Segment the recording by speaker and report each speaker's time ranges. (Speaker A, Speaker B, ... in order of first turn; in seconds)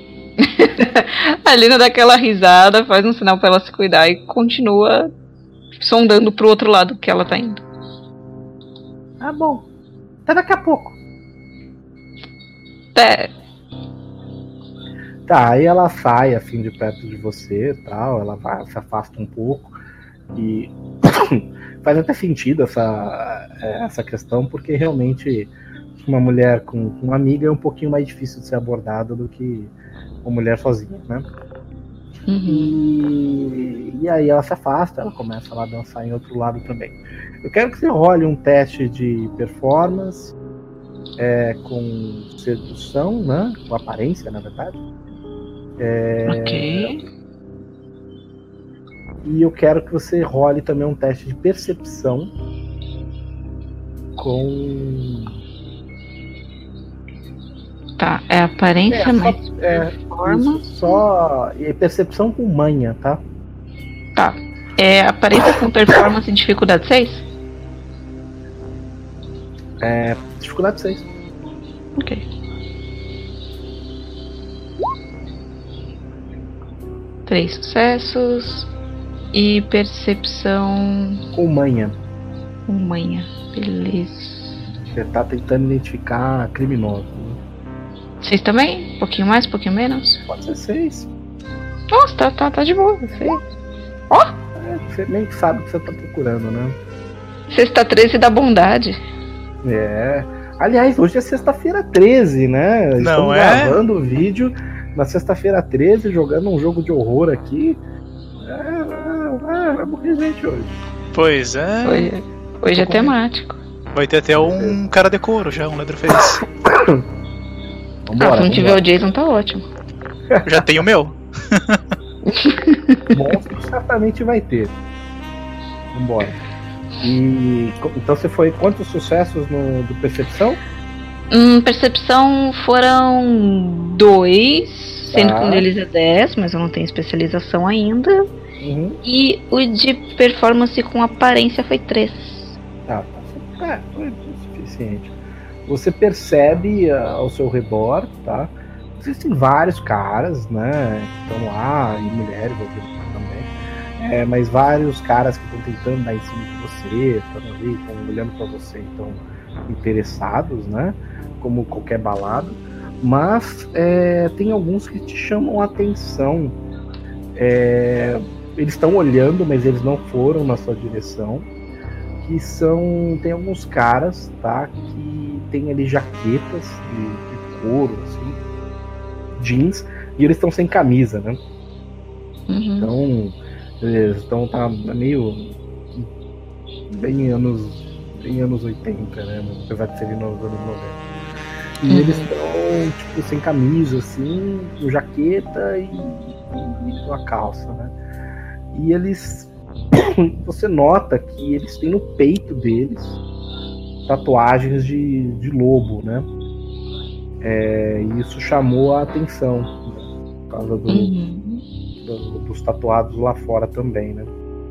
Speaker A: 0.4-5.1, 5.8-7.6, 12.9-13.3, 32.3-32.8, 46.3-47.0, 58.0-59.4, 60.1-60.9, 64.2-67.2, 72.0-72.2, 77.2-78.7, 79.3-81.2, 82.7-84.4, 88.2-90.2, 91.9-93.4, 97.5-99.0, 111.8-113.6, 118.2-119.7, 122.3-123.1, 131.3-138.2, 139.0-142.5, 182.5-182.9, 191.9-192.3, 210.9-211.6
Speaker B: 9.2-9.7, 10.2-10.9, 15.2-19.8, 20.3-31.3, 32.5-40.3, 41.2-44.8, 45.8-46.9, 49.2-52.3, 54.1-55.4, 58.9-63.2, 69.8-71.1, 81.3-82.0, 84.9-87.4, 90.2-91.1, 94.6-96.8, 99.6-107.8, 108.4-110.7, 114.3-114.8, 116.6-117.0, 118.0-118.8, 120.3-120.8, 123.1-124.7, 125.9-126.3, 127.0-130.6, 135.1-135.6, 138.6-139.0, 142.9-145.1, 145.7-166.6, 167.3-171.5, 172.2-178.4, 179.3-181.4, 182.8-186.1, 186.9-191.0, 191.8-197.9, 198.7-203.2, 204.1-206.3, 207.4-211.1, 212.0-214.3
Speaker C: 103.0-103.8, 111.1-112.1, 112.7-113.1, 113.9-116.4, 120.4-121.8